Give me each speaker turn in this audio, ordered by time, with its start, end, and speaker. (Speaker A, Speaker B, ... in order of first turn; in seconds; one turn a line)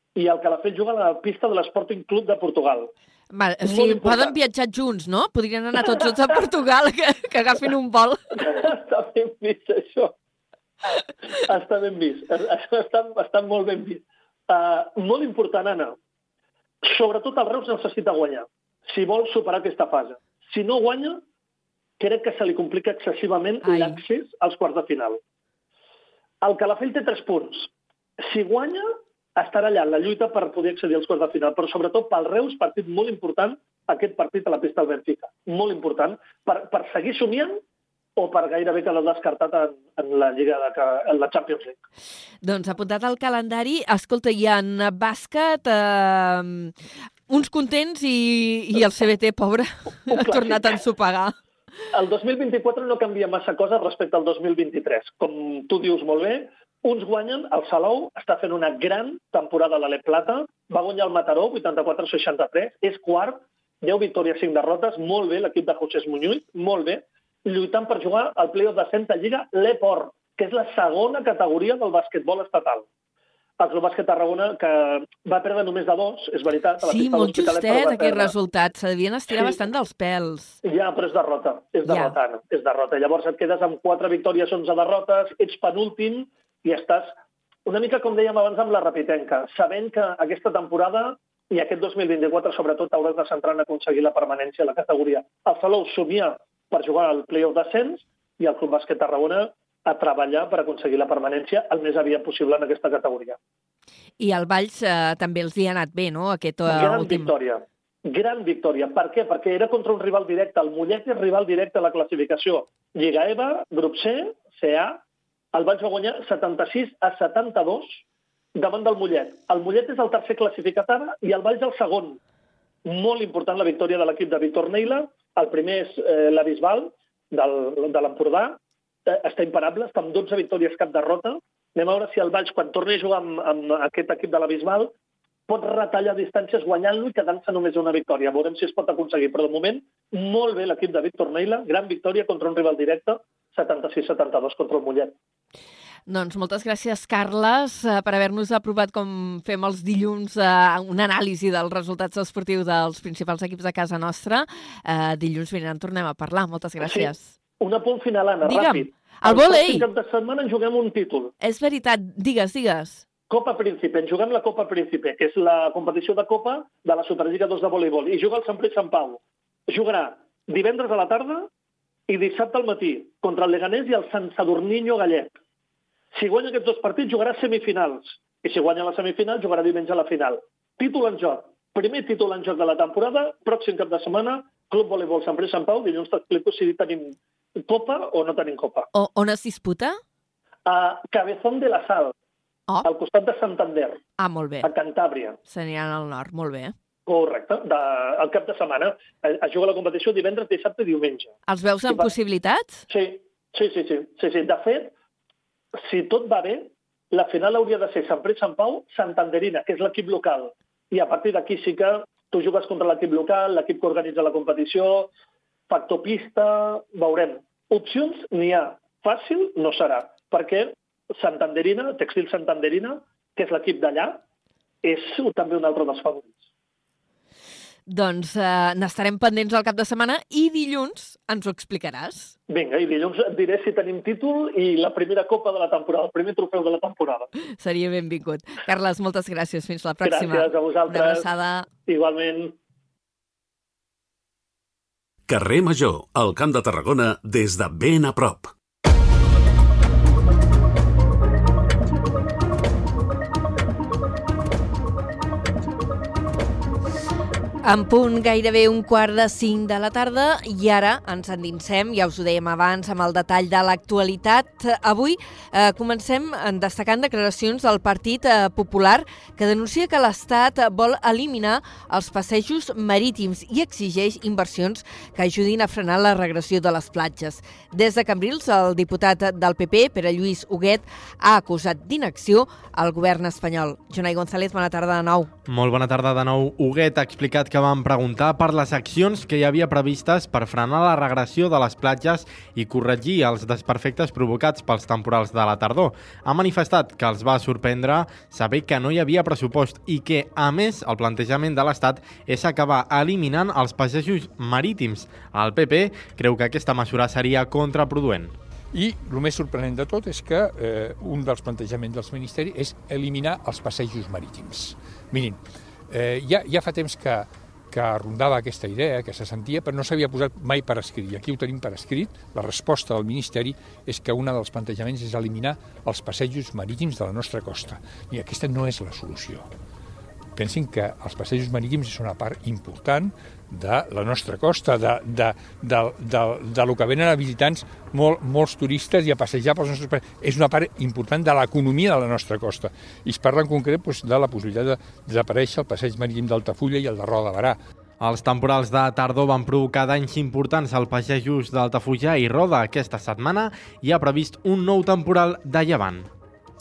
Speaker A: 0.1-2.9
Speaker B: 3.3-8.4
Speaker A: 3.6-4.3
Speaker A: 5.8-6.1
Speaker A: 8.4-10.1
Speaker A: 11.4-16.0
Speaker A: 16.8-21.2
Speaker A: 22.0-25.2
Speaker B: 23.6-24.0
Speaker A: 26.4-27.7
Speaker A: 28.2-28.8
Speaker A: 29.4-37.6
Speaker A: 38.2-41.8
Speaker B: 42.4-46.7
Speaker B: 47.3-51.3
Speaker A: 50.1-50.8
Speaker A: 51.9-72.8
Speaker A: 73.6-78.3
Speaker B: 76.8-80.6
Speaker A: 80.6-87.1
Speaker B: 81.8-82.2
Speaker A: 87.7-103.4
Speaker B: 104.2-107.3
Speaker A: 106.7-115.0
Speaker A: 115.5-118.0
Speaker A: 118.5-122.2
Speaker A: 122.8-134.9
Speaker A: 135.5-145.1
Speaker B: 146.1-157.3
Speaker A: 156.8-161.3
Speaker B: 158.4-159.8
Speaker B: 161.4-163.0
Speaker A: 163.3-171.5
Speaker A: 172.1-175.3
Speaker A: 176.1-188.9
Speaker B: 188.9-190.0
Speaker A: 190.7-192.1
Speaker A: 192.8-194.0
Speaker B: 194.2-194.7
Speaker A: 194.6-195.4
Speaker B: 195.5-196.7
Speaker A: 197.1-201.3
Speaker B: 201.5-202.8
Speaker A: 202.9-204.9
Speaker A: 205.8-215.1
Speaker A: 215.7-224.2
Speaker A: 224.8-226.3
Speaker B: 227.9-232.3
Speaker A: 232.5-237.3
Speaker B: 237.6-241.7
Speaker A: 240.0-241.3
Speaker A: 241.9-242.6
Speaker C: 245.3-248.5
Speaker B: 257.6-285.3
Speaker D: 285.5-308.3
Speaker E: 308.7-329.5
Speaker E: 330.4-347.6
Speaker D: 348.0-356.1